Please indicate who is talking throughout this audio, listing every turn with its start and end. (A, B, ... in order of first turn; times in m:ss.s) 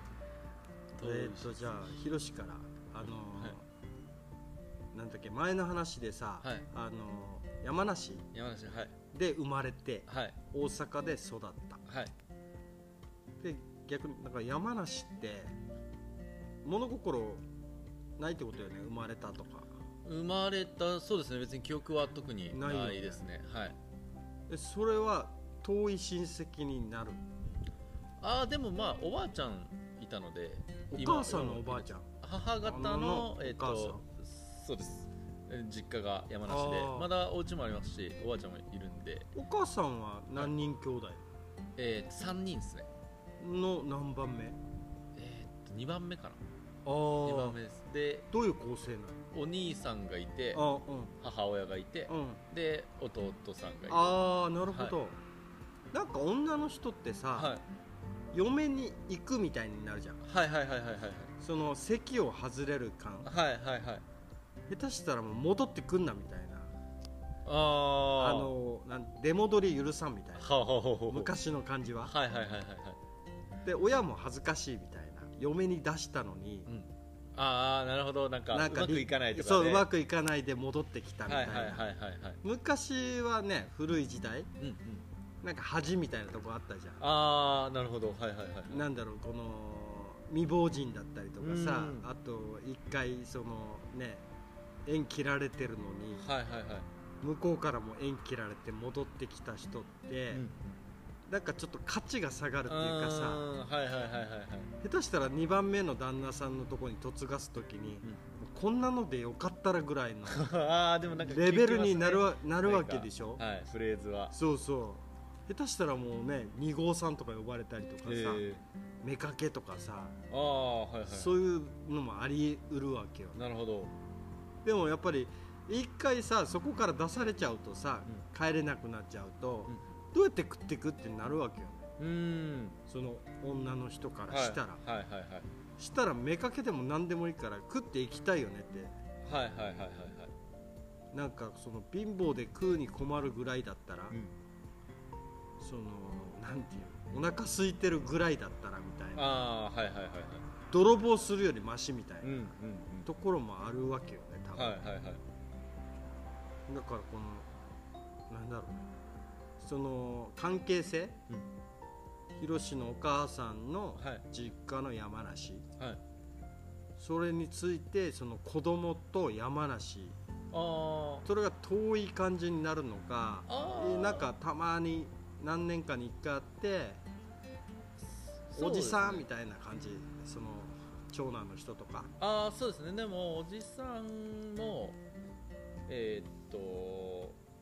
0:01.0-0:01.6 A
0:01.0-0:03.6 B
0:04.9-0:08.3 B
0:08.3-0:08.9 A
0:09.1-0:11.8 B
0:10.1-0:10.4 A
0:11.9-0:12.1 A
0:13.4-0:15.5 B
0:16.6-0:17.4 B
0:18.2-0:19.7 B
0:20.0-0:23.8 A
0:22.5-0:23.2 B
0:24.5-0:27.2 B
0:28.2-0:39.3 A
0:30.9-0:32.1 B
0:32.6-0:34.0 B
0:36.5-0:37.1 B
0:39.3-0:41.3 B
0:41.8-0:42.9 A
0:43.4-0:44.6 B
0:45.2-0:46.4 A
0:46.8-0:47.6 B
0:47.2-0:48.3 A
0:48.3-0:49.2 B
0:49.3-0:50.6 A
0:50.5-0:51.1 B
0:51.2-0:54.2 A
0:52.1-0:52.4 B
0:53.9-0:55.2 B
0:55.9-0:57.5 B
0:57.3-0:57.6 A
0:58.3-1:00.2 B
1:00.2-1:01.3 A
1:01.4-1:03.3 B
1:03.2-1:04.0 A
1:04.7-1:06.7 B
1:07.4-1:08.5 A
1:08.2-1:10.5 B
1:10.4-1:11.3 A
1:11.1-1:12.1 B
1:12.0-1:13.0 A
1:13.6-1:16.7 B
1:16.7-1:19.9 A
1:18.5-1:21.8 B
1:21.3-1:22.4 A
1:22.4-1:24.5 B
1:24.6-1:25.0 A
1:25.4-1:27.0 B
1:27.0-1:28.8 A
1:28.7-1:34.2 B
1:31.4-1:32.0 A
1:34.8-1:36.2 B
1:36.2-1:36.9 A
1:37.2-1:40.4 B
1:40.3-1:40.8 A
1:41.3-1:43.4 B
1:42.6-1:44.7 A
1:44.8-1:50.4 B
1:50.3-1:54.3 A
1:51.2-1:53.4 B
1:54.3-1:58.4 B
1:58.0-1:58.6 A
1:59.0-2:00.2 B
2:00.3-2:01.3 A
2:01.1-2:03.4 B
2:03.3-2:03.9 A
2:04.6-2:11.9 B
2:12.0-2:12.8 A
2:12.9-2:14.8 B
2:14.3-2:15.5 A
2:15.8-2:18.9 B
2:19.2-2:20.3 A
2:21.1-2:24.1 B
2:24.1-2:24.4 A
2:25.6-2:29.3 B
2:29.2-2:30.5 A
2:30.7-2:32.5 B
2:32.2-2:33.1 A
2:33.0-2:34.8 B
2:34.5-2:35.2 A
2:36.7-2:37.5 B
2:38.3-2:38.9 B
2:39.6-2:41.2 B
2:42.4-2:45.6 B
2:44.0-2:44.2 A
2:47.0-2:50.2 B
2:50.5-2:51.3 A
2:51.2-2:57.0 B
2:53.5-2:54.3 A
2:58.0-2:59.2 A
2:58.5-3:02.1 B
3:02.2-3:05.0 A
3:05.9-3:07.4 A